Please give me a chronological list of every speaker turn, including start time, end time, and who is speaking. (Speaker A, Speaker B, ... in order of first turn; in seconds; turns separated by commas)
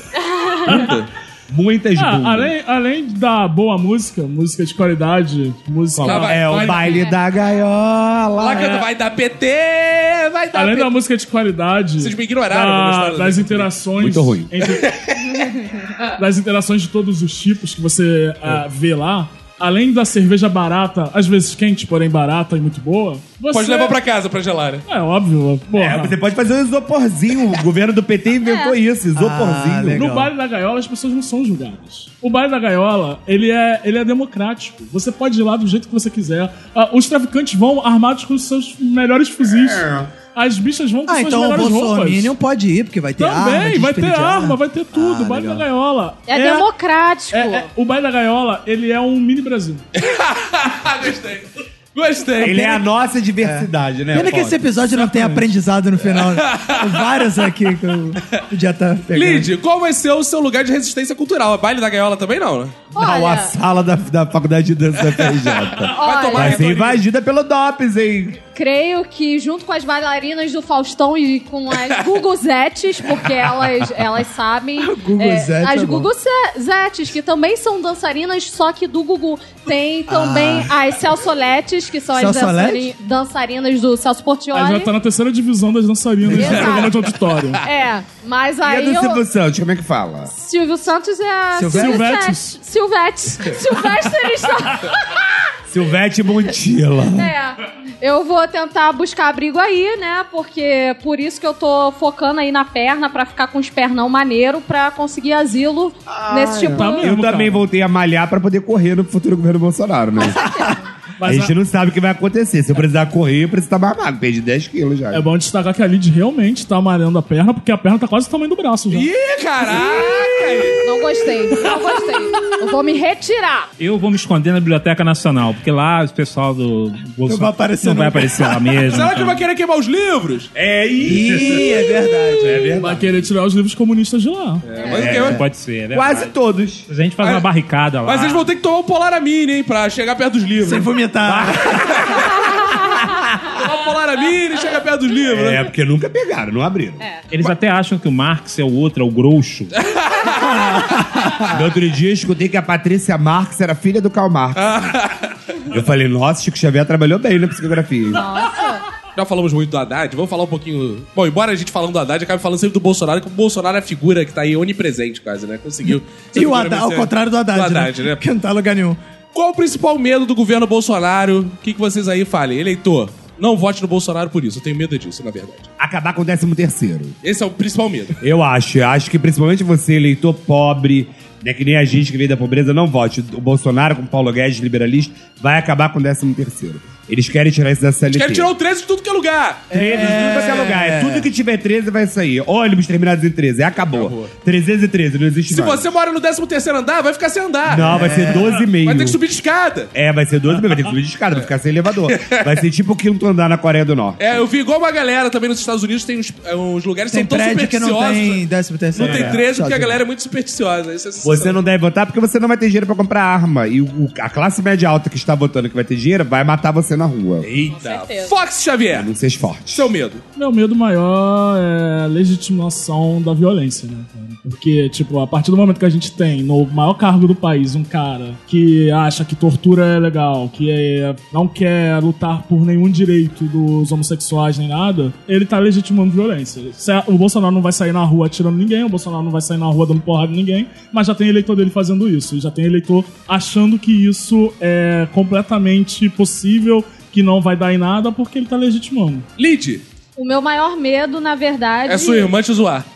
Speaker A: 0.1-0.6, Speaker B: 0.6-1.1, Speaker C: 0.7-1.0, Speaker C: 1.5-2.5, Speaker D: 2.0-6.6, Speaker B: 6.0-7.1, Speaker C: 6.0-8.9, Speaker A: 6.8-7.2, Speaker B: 8.4-10.9, Speaker D: 10.5-14.9, Speaker B: 12.0-13.7, Speaker C: 14.0-14.5, Speaker B: 14.8-15.3, Speaker D: 16.1-24.0, Speaker B: 23.5-24.9, Speaker D: 24.9-26.2, Speaker C: 25.8-30.1, Speaker A: 28.4-28.8, Speaker E: 29.2-30.3, Speaker D: 29.9-42.3, Speaker C: 39.5-40.1, Speaker E: 41.1-45.7, Speaker D: 43.2-46.7, Speaker A: 46.3-47.7, Speaker D: 47.3-49.9, Speaker B: 50.0-52.8, Speaker C: 52.4-54.7, Speaker E: 53.4-59.5, Speaker B: 56.0-57.0, Speaker B: 59.1-62.8, Speaker C: 62.9-68.4, Speaker A: 62.9-63.5, Speaker B: 65.1-67.0, Speaker A: 65.9-66.6, Speaker A: 68.5-84.9, Speaker E: 74.8-76.1, Speaker E: 80.1-80.7, Speaker E: 82.2-82.9, Speaker D: 84.5-87.6, Speaker A: 86.3-87.0, Speaker B: 86.4-87.0, Speaker A: 87.6-89.2, Speaker C: 88.6-90.3, Speaker A: 90.3-95.3, Speaker E: 91.5-92.1, Speaker D: 91.7-92.5, Speaker C: 95.7-97.3, Speaker A: 97.1-107.1, Speaker C: 106.1-115.2, Speaker D: 106.7-107.7, Speaker A: 110.2-110.9, Speaker D: 111.2-111.5, Speaker D: 115.1-119.1, Speaker B: 118.9-120.9, Speaker A: 120.8-123.7, Speaker F: 123.8-129.4, Speaker E: 127.3-129.0, Speaker B: 128.9-130.5, Speaker C: 130.6-133.3, Speaker E: 131.0-132.8, Speaker D: 132.7-134.7, Speaker B: 134.7-135.4, Speaker C: 134.8-136.9, Speaker F: 134.9-136.3, Speaker F: 136.9-138.5, Speaker B: 137.2-137.5, Speaker B: 138.1-140.9, Speaker E: 140.6-142.1, Speaker C: 141.2-143.3, Speaker B: 141.9-142.3, Speaker B: 143.5-145.7, Speaker C: 145.3-147.0, Speaker F: 147.3-149.7, Speaker B: 149.8-150.7, Speaker E: 150.3-151.6, Speaker C: 151.5-154.9, Speaker B: 154.6-155.6, Speaker C: 155.7-158.3, Speaker A: 158.1-158.9, Speaker B: 159.2-168.2, Speaker E: 165.9-169.0, Speaker B: 169.3-175.7, Speaker C: 175.8-177.2, Speaker B: 177.2-178.2, Speaker C: 178.2-188.5, Speaker B: 188.1-190.0, Speaker E: 189.7-191.3, Speaker C: 189.7-196.0, Speaker B: 193.9-194.3, Speaker B: 195.5-198.0, Speaker C: 197.7-199.2, Speaker E: 197.8-198.6, Speaker B: 198.8-199.9, Speaker C: 199.9-204.5, Speaker B: 202.1-202.5, Speaker B: 204.2-211.6, Speaker E: 207.1-210.0, Speaker C: 209.0-209.4, Speaker C: 211.2-217.5, Speaker B: 217.4-220.2, Speaker A: 217.7-218.3, Speaker C: 218.9-219.9, Speaker D: 220.4-249.3, Speaker B: 249.4-249.8, Speaker A: 250.2-252.3, Speaker B: 251.9-252.9